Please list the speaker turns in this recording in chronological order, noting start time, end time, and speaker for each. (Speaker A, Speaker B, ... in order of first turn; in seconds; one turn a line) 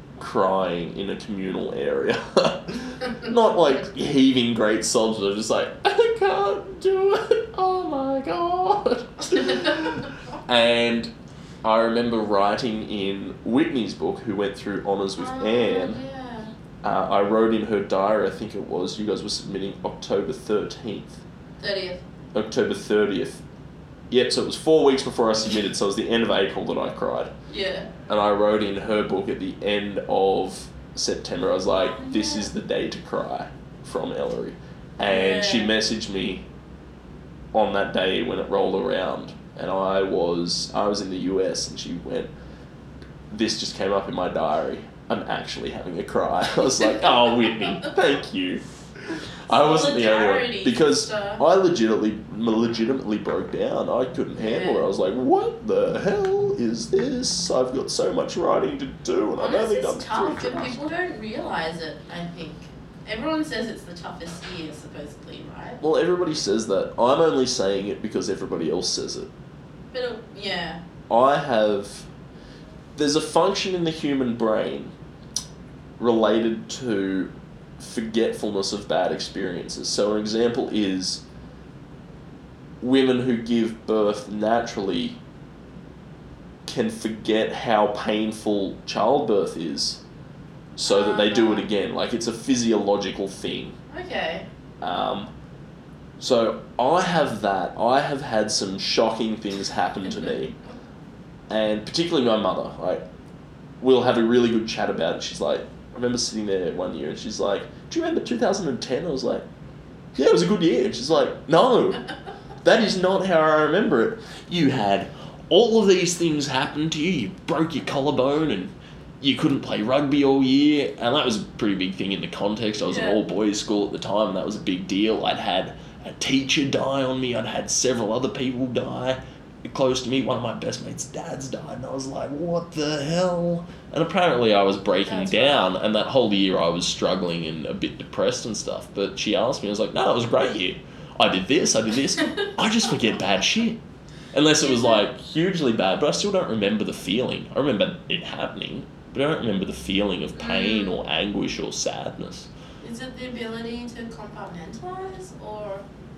Speaker A: 0.2-11.1
Speaker B: 9.3-10.1
Speaker A: 11.6-16.0
Speaker B: 15.2-16.5
Speaker A: 16.8-21.2
Speaker B: 21.6-22.0
Speaker A: 22.3-23.4
Speaker A: 24.1-27.3
Speaker B: 27.5-27.9
Speaker A: 28.1-36.5
Speaker B: 31.7-32.5
Speaker B: 35.0-35.7
Speaker A: 37.5-42.3
Speaker A: 43.3-60.8
Speaker B: 47.5-47.9
Speaker B: 49.5-51.4
Speaker B: 54.4-54.9
Speaker B: 59.4-65.8
Speaker A: 65.8-69.3
Speaker B: 69.9-70.8
Speaker A: 71.1-72.1
Speaker A: 73.0-74.9
Speaker A: 76.0-81.2
Speaker A: 82.8-85.2
Speaker A: 86.7-90.0
Speaker A: 90.8-93.8
Speaker B: 90.8-91.7
Speaker B: 93.9-94.5
Speaker A: 94.8-95.3
Speaker A: 96.2-100.6
Speaker A: 101.5-103.0
Speaker A: 103.8-109.5
Speaker A: 110.2-112.1
Speaker A: 112.6-143.8
Speaker B: 122.9-123.2
Speaker B: 134.9-135.8
Speaker A: 144.3-152.5
Speaker B: 144.6-145.0
Speaker B: 150.4-151.0
Speaker B: 152.8-155.8